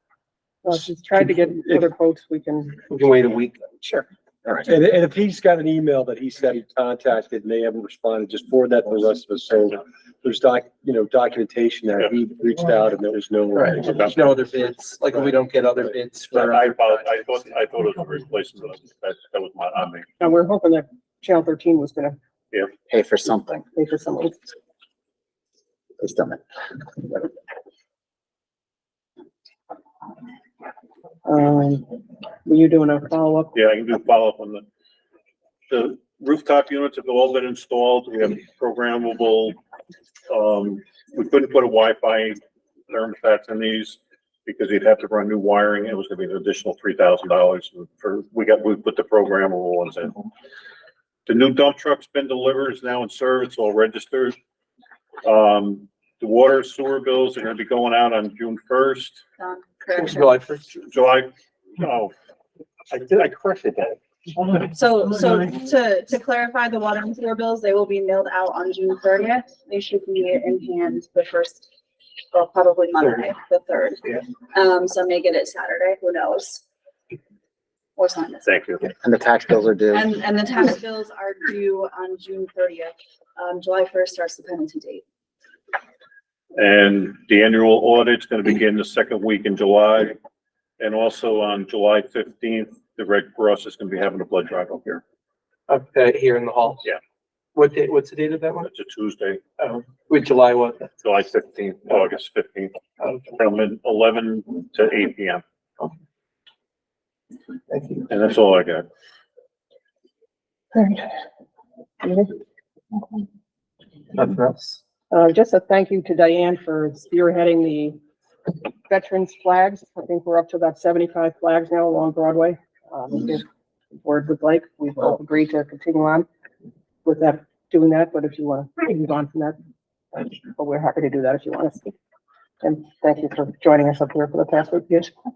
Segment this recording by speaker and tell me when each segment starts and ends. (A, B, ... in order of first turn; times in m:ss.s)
0:00.6-0:02.8 A
0:02.9-0:03.6 B
0:03.8-0:04.1 A
0:04.6-0:14.2 C
0:13.5-0:17.0 B
0:16.3-0:20.1 D
0:20.2-0:22.2 A
0:22.8-0:23.6 E
0:23.7-0:24.5 A
0:26.0-0:26.4 E
0:31.2-0:31.9 A
0:32.4-0:33.5 A
0:33.5-0:34.6 D
0:35.7-0:39.6 D
0:40.3-0:50.2 D
0:51.2-0:54.4 D
0:55.2-0:59.2 D
0:59.4-1:00.5 F
0:59.9-1:00.7 B
1:00.8-1:02.1 D
1:02.9-1:04.0 D
1:04.6-1:11.7 F
1:12.3-1:16.6 F
1:13.0-1:13.3 B
1:18.0-1:18.7 F
1:18.4-1:18.8 D
1:18.9-1:20.1 E
1:19.9-1:25.0 F
1:26.6-1:30.2 D
1:30.8-1:35.0 D
1:35.7-1:36.9 B
1:37.5-1:38.7 B
1:38.6-1:39.4 D
1:39.6-1:40.8 B
1:41.0-1:45.4 D
1:47.7-1:48.0 B
1:48.1-1:48.9 D
1:50.7-1:51.1 A
1:52.0-1:52.3 A
1:54.1-1:54.8 B
1:55.1-1:58.0 A
1:58.9-2:03.4 A
2:04.0-2:06.3 A
2:07.0-2:09.6 A
2:10.1-2:11.9 A
2:12.6-2:15.1 A